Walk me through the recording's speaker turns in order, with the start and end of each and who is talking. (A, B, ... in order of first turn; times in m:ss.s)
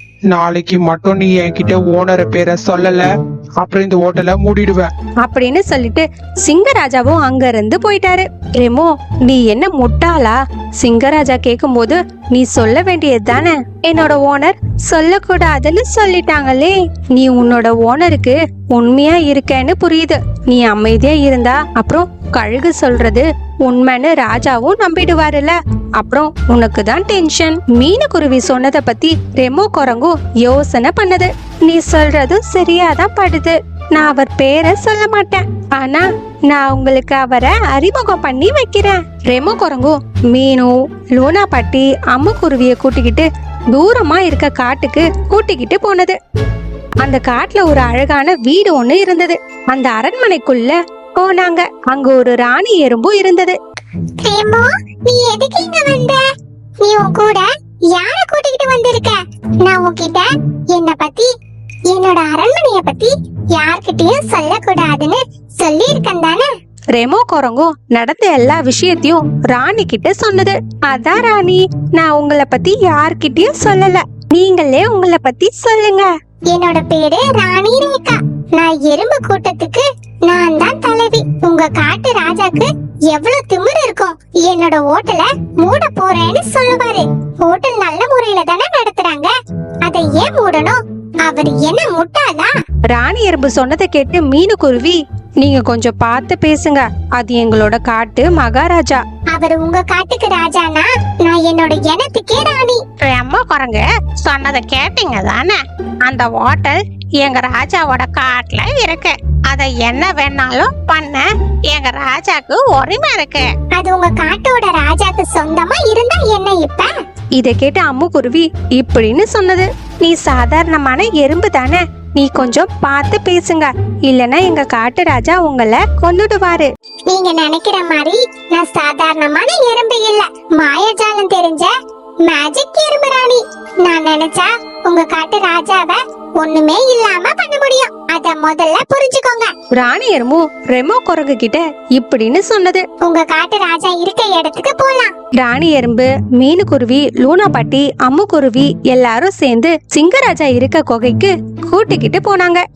0:00.3-0:03.1 A
0:03.6-0:04.9 A
0:05.2-0:46.2 B
0:47.0-0:53.6 B
0:54.2-0:56.2 C
0:56.8-1:01.3 C
1:01.9-1:06.5 C
1:06.9-1:16.1 B
1:16.5-1:29.3 C
1:29.8-1:32.5 C
1:32.9-1:39.0 B
1:39.3-1:42.8 C
1:43.0-1:53.5 D
1:53.7-1:56.9 C
1:57.4-2:06.7 B
2:07.1-2:19.5 C
2:19.7-2:22.8 B
2:23.0-2:25.1 C
2:25.4-2:32.6 B